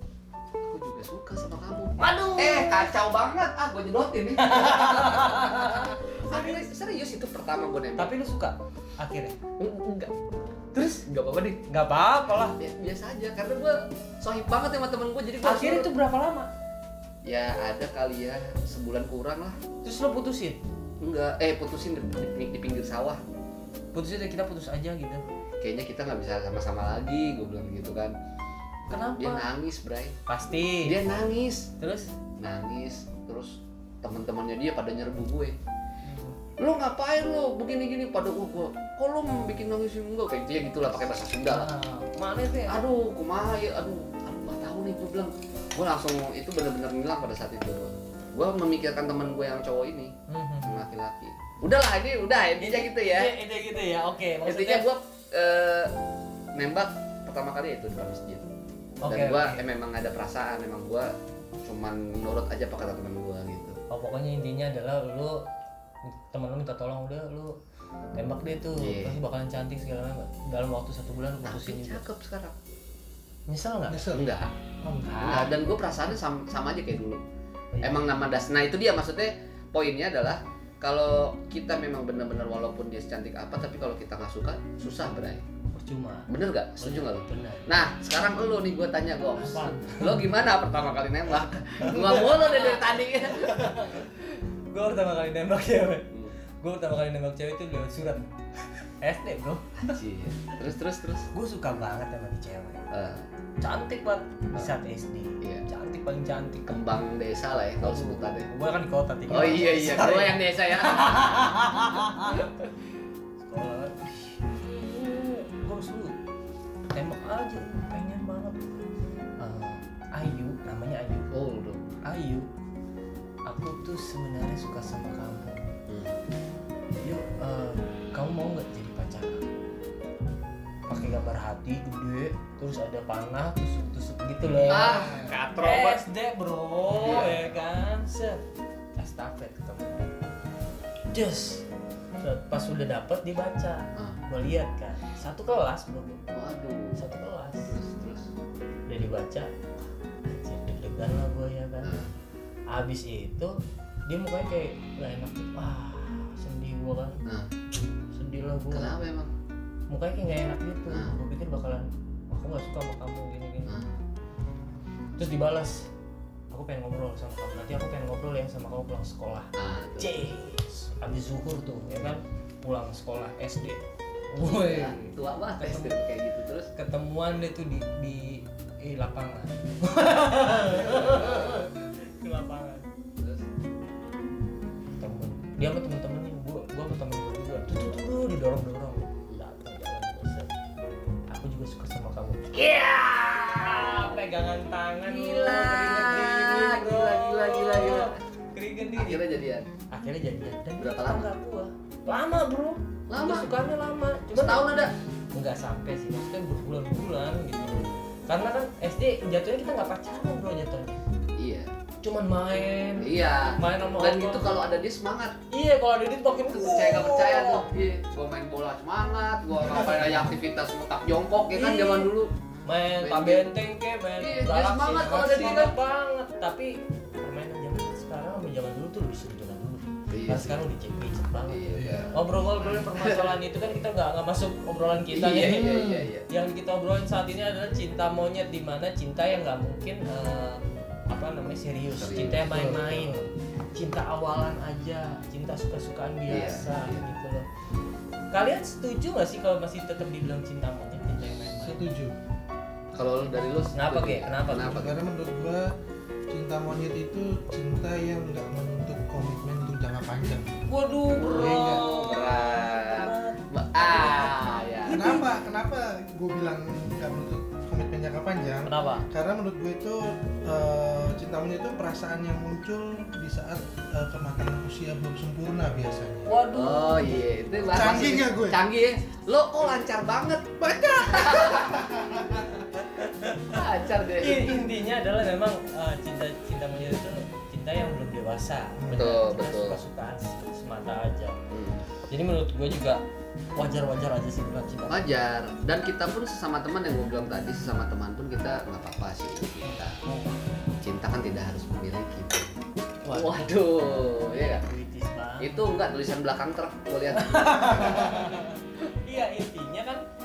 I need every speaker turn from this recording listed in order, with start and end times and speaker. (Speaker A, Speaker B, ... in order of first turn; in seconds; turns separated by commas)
Speaker A: 0.6-8.1, Speaker B: 2.0-2.9, Speaker B: 4.4-6.7, Speaker B: 8.0-9.4, Speaker A: 9.6-10.1, Speaker B: 10.7-11.0, Speaker A: 10.8-11.6, Speaker B: 11.7-12.6, Speaker A: 12.6-15.9, Speaker B: 15.4-16.5, Speaker A: 17.2-19.6, Speaker B: 19.8-20.6, Speaker A: 21.0-23.2, Speaker B: 23.9-25.2, Speaker A: 25.6-28.1, Speaker B: 28.9-29.5, Speaker A: 29.2-30.2, Speaker B: 30.3-30.9, Speaker A: 30.8-31.7, Speaker B: 31.8-32.1, Speaker A: 32.4-35.6, Speaker B: 36.1-36.4, Speaker A: 36.6-41.7, Speaker B: 41.5-42.8, Speaker A: 42.7-53.3, Speaker B: 50.3-50.8, Speaker B: 52.6-54.9, Speaker A: 54.5-55.9, Speaker A: 56.5-58.5, Speaker B: 59.0-59.6, Speaker A: 59.1-61.1, Speaker A: 61.6-63.8, Speaker B: 63.9-65.5, Speaker B: 66.3-67.6, Speaker B: 68.2-72.0, Speaker A: 68.8-69.2, Speaker A: 71.5-72.5, Speaker B: 73.5-74.0, Speaker C: 73.9-74.3, Speaker A: 74.1-74.5, Speaker C: 74.8-75.3, Speaker B: 75.0-75.5, Speaker A: 75.2-77.2, Speaker B: 77.7-78.1, Speaker A: 77.8-85.4, Speaker B: 85.7-87.7, Speaker A: 86.3-94.1, Speaker B: 89.4-90.3, Speaker B: 91.8-94.1, Speaker B: 94.7-96.1, Speaker A: 96.1-96.4, Speaker B: 96.6-100.0, Speaker A: 99.9-101.3, Speaker B: 101.3-102.9, Speaker A: 102.9-103.2, Speaker B: 103.6-106.8, Speaker A: 106.7-108.5, Speaker B: 107.8-112.5, Speaker A: 109.3-111.6, Speaker B: 113.4-116.2, Speaker B: 116.9-118.6, Speaker B: 119.4-121.3, Speaker A: 121.3-121.9, Speaker B: 122.0-122.5, Speaker B: 123.5-125.7, Speaker A: 125.9-126.2, Speaker B: 127.0-129.5, Speaker B: 130.9-138.4, Speaker A: 134.7-136.0, Speaker C: 134.7-135.3, Speaker A: 136.9-137.5, Speaker B: 139.0-140.1, Speaker B: 141.1-141.7, Speaker B: 142.2-146.2, Speaker A: 146.3-147.0, Speaker B: 146.9-147.7, Speaker A: 147.7-148.3, Speaker B: 148.9-149.5, Speaker B: 150.2-152.0, Speaker A: 151.8-152.1, Speaker B: 152.7-157.2, Speaker B: 158.1-158.9, Speaker A: 158.7-159.3, Speaker B: 159.9-163.8, Speaker B: 165.2-165.9, Speaker B: 166.5-176.0, Speaker A: 169.6-170.2, Speaker A: 174.4-176.7, Speaker B: 176.8-182.9, Speaker A: 180.9-181.5, Speaker A: 183.2-183.4, Speaker B: 185.0-190.5, Speaker B: 191.3-199.3, Speaker A: 193.4-194.0, Speaker A: 195.1-198.1, Speaker A: 199.0-199.7, Speaker B: 199.9-204.7, Speaker A: 200.8-201.3, Speaker A: 203.1-203.5, Speaker A: 204.3-204.9, Speaker B: 205.3-211.0, Speaker A: 211.4-211.7, Speaker B: 212.0-214.5, Speaker A: 213.0-215.4, Speaker B: 215.5-217.7, Speaker A: 216.5-222.3, Speaker B: 221.5-222.1, Speaker B: 222.7-247.5, Speaker A: 223.0-223.5, Speaker A: 224.2-225.8, Speaker C: 225.0-225.5, Speaker A: 230.1-230.6, Speaker A: 231.5-232.1, Speaker C: 231.8-232.1, Speaker A: 232.8-233.2, Speaker A: 235.1-236.3, Speaker A: 242.0-242.4, Speaker C: 242.5-243.3, Speaker A: 246.3-247.1, Speaker B: 248.3-251.9, Speaker C: 251.6-252.2, Speaker A: 252.9-255.0, Speaker B: 253.7-254.9, Speaker C: 254.6-255.7, Speaker C: 256.3-260.6, Speaker B: 260.7-265.3, Speaker A: 261.2-265.1, Speaker C: 261.3-261.9, Speaker C: 264.9-276.3, Speaker B: 268.6-269.1, Speaker B: 276.3-277.1, Speaker A: 276.5-280.5, Speaker C: 277.7-278.6, Speaker C: 280.6-282.7, Speaker A: 281.1-281.8, Speaker B: 282.7-291.4, Speaker A: 283.5-284.6, Speaker C: 288.8-289.1, Speaker A: 289.0-289.8, Speaker A: 291.5-291.8, Speaker B: 292.1-293.0, Speaker B: 293.6-295.1, Speaker A: 294.9-300.0, Speaker B: 299.6-300.4, Speaker A: 300.8-302.5, Speaker B: 303.1-305.7, Speaker A: 303.1-304.6, Speaker A: 305.4-308.3, Speaker B: 307.1-310.1